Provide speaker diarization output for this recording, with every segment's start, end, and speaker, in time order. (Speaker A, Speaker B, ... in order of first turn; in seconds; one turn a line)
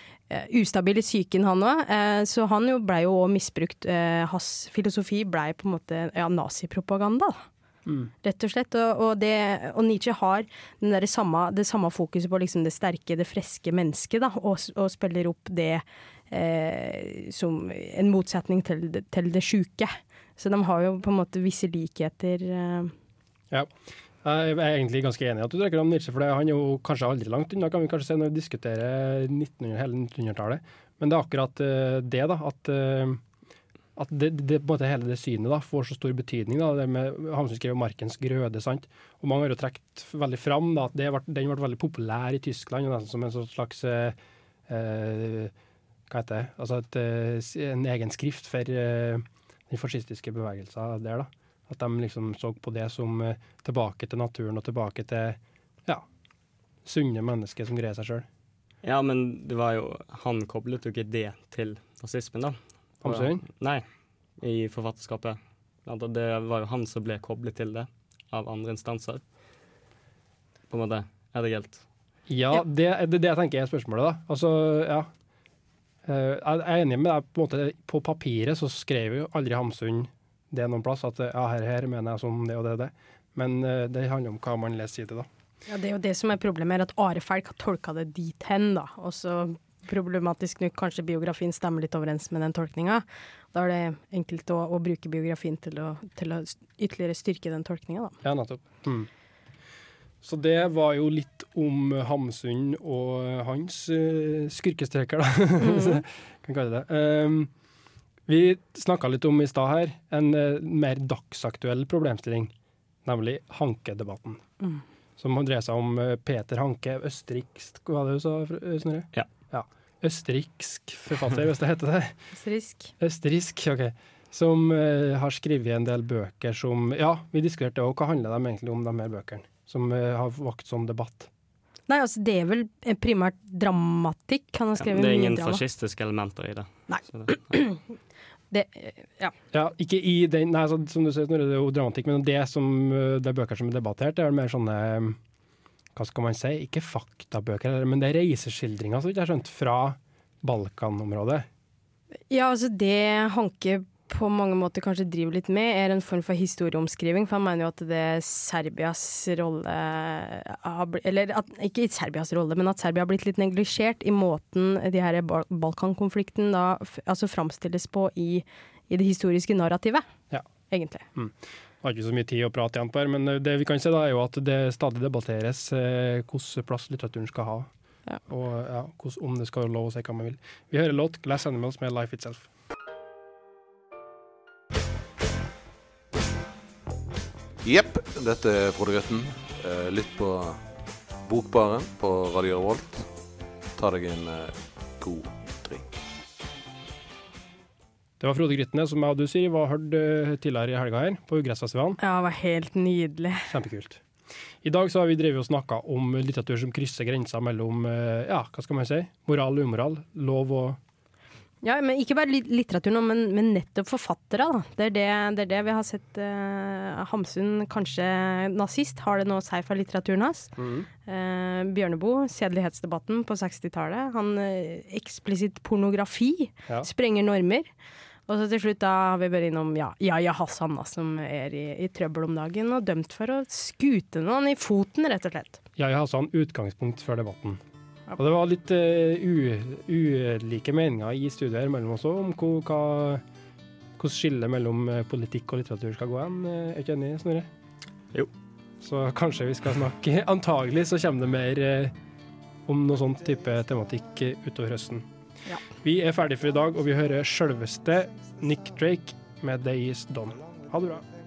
Speaker A: 0.3-7.4
Speaker B: 7.9-8.1
Speaker A: 8.2-22.9
Speaker B: 24.2-33.2
Speaker B: 34.0-44.2
Speaker B: 44.7-45.5
Speaker B: 46.1-56.1
Speaker B: 56.9-58.3
Speaker C: 58.8-63.8
Speaker B: 63.0-63.4
Speaker C: 64.4-69.2
Speaker C: 70.7-71.8
Speaker B: 72.3-75.1
Speaker B: 76.0-85.3
Speaker A: 85.7-98.2
Speaker B: 98.2-99.1
Speaker B: 100.2-107.5
Speaker A: 105.6-106.0
Speaker B: 108.3-112.5
Speaker B: 113.0-114.4
Speaker B: 115.2-122.2
Speaker A: 122.3-122.9
Speaker B: 123.0-131.3
Speaker A: 131.9-135.6
Speaker C: 134.8-137.4
Speaker A: 136.9-137.8
Speaker A: 138.5-139.3
Speaker B: 139.5-145.2
Speaker B: 145.9-151.5
Speaker A: 152.3-170.1
Speaker A: 170.7-171.1
Speaker B: 171.2-177.7
Speaker B: 178.3-182.5
Speaker D: 187.6-190.6
Speaker D: 191.2-193.1
Speaker D: 193.8-196.0
Speaker B: 198.2-202.0
Speaker A: 202.0-203.5
Speaker B: 203.5-204.0
Speaker B: 204.6-210.8
Speaker A: 211.6-220.5
Speaker B: 220.6-220.9
Speaker A: 221.1-227.7
Speaker A: 228.3-235.6
Speaker B: 235.8-237.6
Speaker B: 238.2-243.2
Speaker B: 244.0-247.5
Speaker B: 248.8-251.9
Speaker B: 252.7-255.1
Speaker B: 255.8-261.1